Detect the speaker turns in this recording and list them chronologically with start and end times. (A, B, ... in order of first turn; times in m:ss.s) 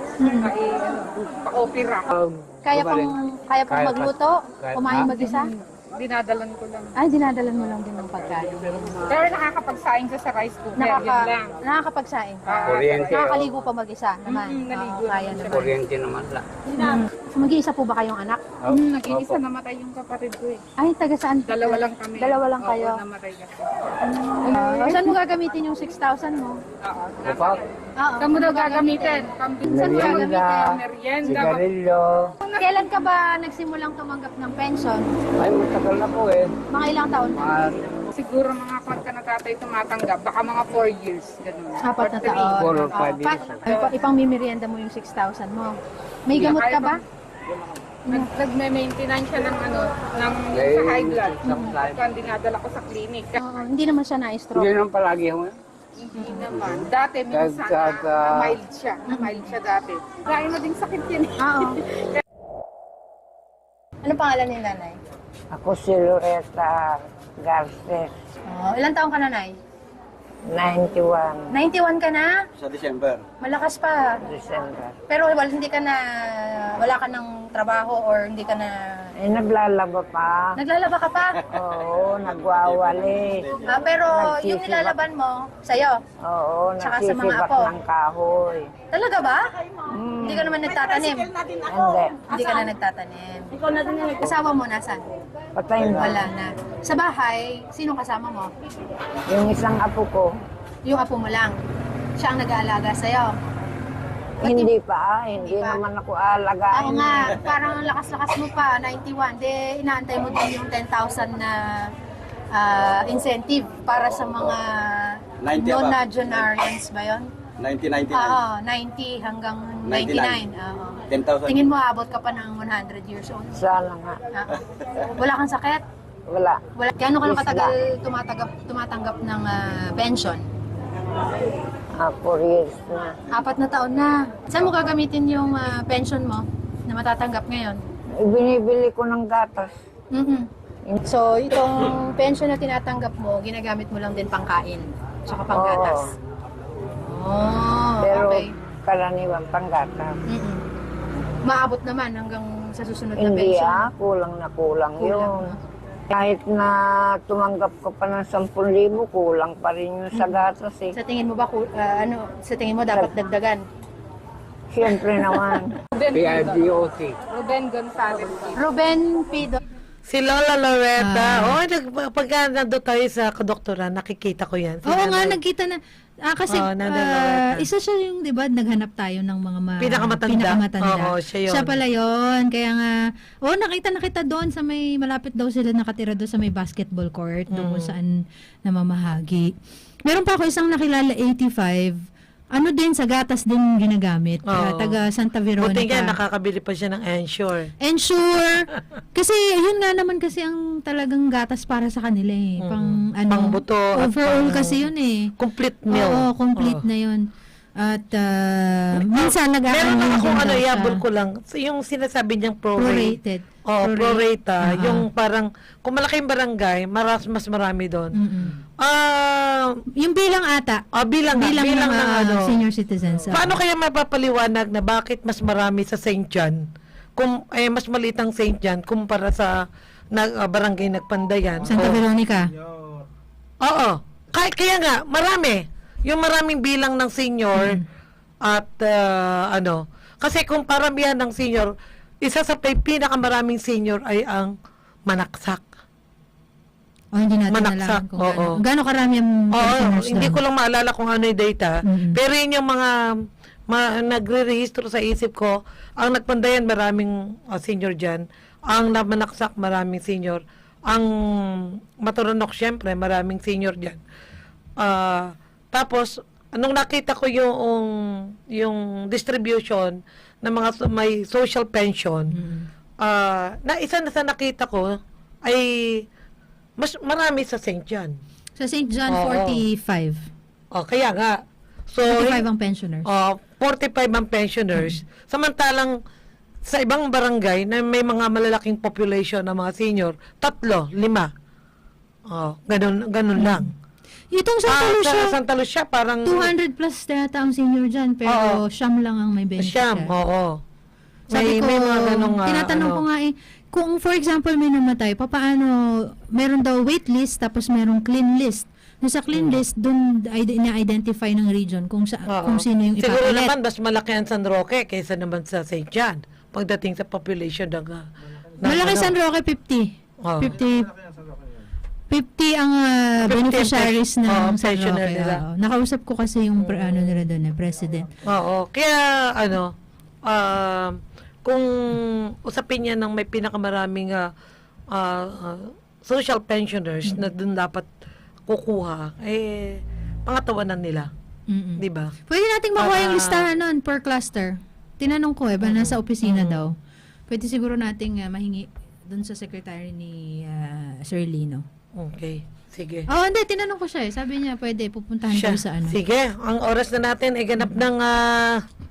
0:00.2-0:00.5 A
0:00.4-0:02.1 B
0:02.1-0:03.2 C
0:02.7-0:05.5 A
0:03.7-0:05.1 C
0:05.0-0:07.0 B
0:07.0-0:09.0 A
0:09.1-0:11.6 B
0:10.8-0:15.7 A
0:12.5-0:13.4 B
0:12.7-0:13.5 C
0:14.3-0:15.7 B
0:15.4-0:16.4 C
0:16.7-0:18.6 A
0:18.6-0:19.4 C
0:18.7-0:20.6 B
0:20.8-0:23.0 A
0:21.5-0:23.7 B
0:24.1-0:26.6 A
0:24.5-0:25.0 B
0:24.5-0:25.1 D
0:26.8-0:27.7 B
0:27.2-0:27.6 C
0:28.0-0:30.6 A
0:28.2-0:31.6 B
0:29.6-0:32.3 C
0:32.6-0:35.1 A
0:35.4-0:36.5 C
0:36.7-0:37.6 A
0:37.4-0:37.9 C
0:38.1-0:43.9 B
0:41.8-0:47.0 A
0:42.3-0:43.7 C
0:46.4-0:47.0 B
0:48.1-0:53.4 B
0:50.5-0:52.0 C
0:53.4-0:54.7 A
0:54.6-0:55.5 C
0:56.0-1:01.5 B
0:56.2-0:56.5 A
0:56.5-0:58.6 C
0:59.1-0:59.4 A
1:01.4-1:01.8 A
1:04.0-1:05.0 A
1:05.5-1:08.1 E
1:08.5-1:09.6 A
1:10.5-1:11.5 E
1:11.5-1:12.4 A
1:12.6-1:13.2 F
1:13.4-1:14.2 A
1:14.3-1:15.0 E
1:15.1-1:19.1 A
1:19.2-1:20.6 E
1:20.6-1:21.5 A
1:21.5-1:23.6 E
1:23.6-1:26.0 A
1:24.1-1:25.0 E
1:26.2-1:28.7 E
1:26.8-1:27.7 A
1:28.9-1:29.4 A
1:29.9-1:30.6 E
1:30.2-1:31.3 A
1:31.7-1:32.3 E
1:32.3-1:33.6 A
1:34.2-1:35.1 A
1:35.6-1:36.3 E
1:35.9-1:38.5 A
1:39.3-1:40.3 E
1:40.9-1:41.6 A
1:42.2-1:43.4 A
1:44.4-1:47.4 E
1:44.4-1:44.7 A
1:45.4-1:45.8 A
1:46.7-1:51.9 A
1:52.5-1:57.3 A
1:55.4-1:56.0 F
1:57.6-1:58.4 F
1:58.1-2:03.6 A
1:59.9-2:00.4 F
2:01.1-2:01.6 F
2:03.5-2:04.2 E
2:04.3-2:04.6 A
2:05.1-2:05.8 A
2:06.3-2:06.6 E
2:06.8-2:10.4 A
2:07.2-2:07.7 E
2:12.0-2:13.2 E
2:13.3-2:17.8 A
2:18.2-2:19.7 E
2:20.1-2:20.5 A
2:21.1-2:26.0 A
2:25.5-2:26.1 E
2:27.1-2:28.5 A
2:28.0-2:30.2 E
2:30.3-2:30.6 A
2:31.4-2:33.9 A
2:33.2-2:35.6 E
2:35.0-2:35.6 A
2:36.1-2:41.0 E
2:40.9-2:43.6 A
2:44.7-2:45.8 E
2:46.0-2:46.7 B
2:46.1-2:47.2 C
2:47.3-2:48.6 B
2:48.6-2:49.6 A
2:50.1-2:55.4 G
2:51.0-2:51.6 D
2:54.9-3:09.5 D
2:56.5-2:57.7 G
2:59.8-3:01.7 G
3:07.5-3:07.9 G
3:10.1-3:12.0 D
3:12.5-3:16.2 D
3:14.5-3:15.0 G
3:15.6-3:17.7 G
3:17.8-3:25.3 D
3:22.6-3:24.8 G
3:25.4-3:26.8 G
3:25.9-3:27.2 D
3:27.8-3:31.0 D
3:29.0-3:39.8 G
3:32.8-3:35.1 D
3:38.2-3:38.6 D
3:40.0-3:43.6 D
3:40.9-3:42.5 G
3:43.3-3:46.6 G
3:47.2-3:49.6 G
3:50.1-3:52.0 G
3:51.7-3:52.6 D
3:53.6-3:57.8 G
3:57.6-3:57.8 D
3:58.4-4:01.7 G
4:02.2-4:04.5 G
4:05.1-4:05.6 G
4:07.2-4:10.4 D
4:07.5-4:08.6 G
4:09.5-4:12.9 G
4:11.9-4:12.2 D
4:13.7-4:24.0 G
4:24.8-4:32.4 G
4:32.3-4:32.7 D
4:33.0-4:36.0 G
4:36.8-4:38.2 G
4:38.6-4:40.2 D
4:39.1-4:39.6 G
4:40.8-4:41.4 G
4:41.9-4:42.4 G
4:42.1-4:43.1 D
4:43.1-4:46.0 G
4:46.7-4:51.3 G
4:52.3-4:53.7 G
4:53.4-4:53.7 D
4:54.3-4:55.4 D
4:54.7-4:56.5 G
4:56.3-5:00.1 D
4:58.3-4:58.6 G
4:59.6-5:00.6 G
5:01.3-5:13.5 D
5:01.3-5:03.0 G
5:09.3-5:09.6 G
5:12.3-5:18.1 G
5:18.6-5:19.1 G
5:18.6-5:21.0 D
5:20.2-5:20.6 G
5:22.1-5:28.1 D
5:23.3-5:25.4 G
5:26.6-5:27.2 G
5:28.2-5:29.7 G
5:30.3-5:34.3 G
5:34.9-5:37.9 G
5:38.5-5:41.1 G
5:41.5-5:46.7 D
5:41.8-5:42.1 G
5:42.8-5:43.5 G
5:45.6-5:46.6 G
5:47.3-5:51.7 D
5:52.0-5:53.1 G
5:53.1-5:56.0 D
5:55.3-5:58.6 G